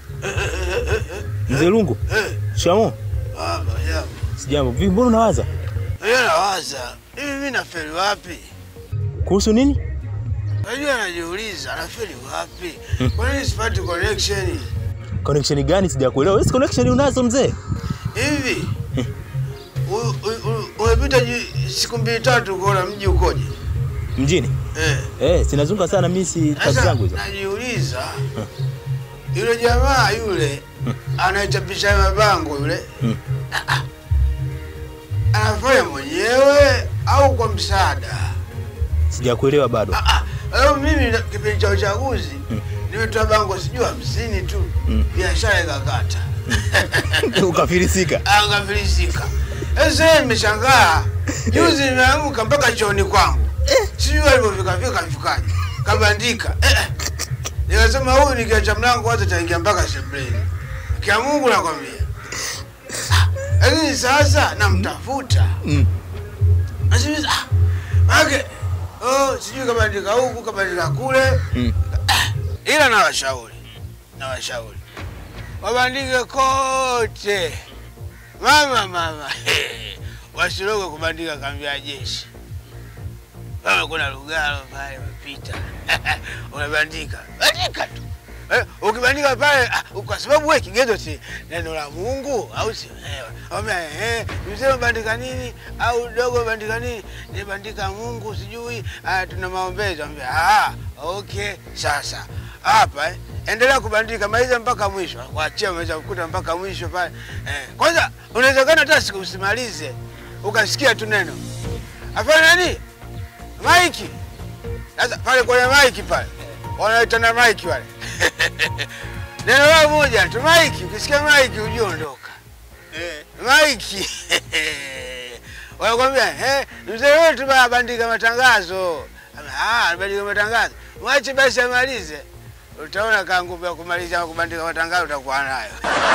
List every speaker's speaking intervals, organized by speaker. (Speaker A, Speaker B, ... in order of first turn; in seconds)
Speaker A: 0.2-2.4, 3.3-4.2, 6.0-8.5, 10.6-14.7, 18.1-18.8, 19.9-23.5, 24.7-25.1, 26.6-28.3, 29.3-30.6, 31.1-32.9, 33.5-33.8, 35.3-38.4, 39.9-47.4, 48.2-56.9, 57.7-62.1, 63.1-65.6, 66.9-67.5, 68.1-71.4, 72.1-73.6, 74.2-74.8, 75.6-77.6, 78.4-82.3, 83.6-111.4, 112.1-112.8, 113.6-114.2, 115.0-118.9, 119.4-122.4, 123.2-132.2, 132.8-135.8
Speaker B: 1.5-2.0, 2.5-3.0, 4.4-5.5, 9.2-9.8, 15.2-17.6, 24.1-24.5, 25.2-27.2, 39.1-40.0, 47.2-48.2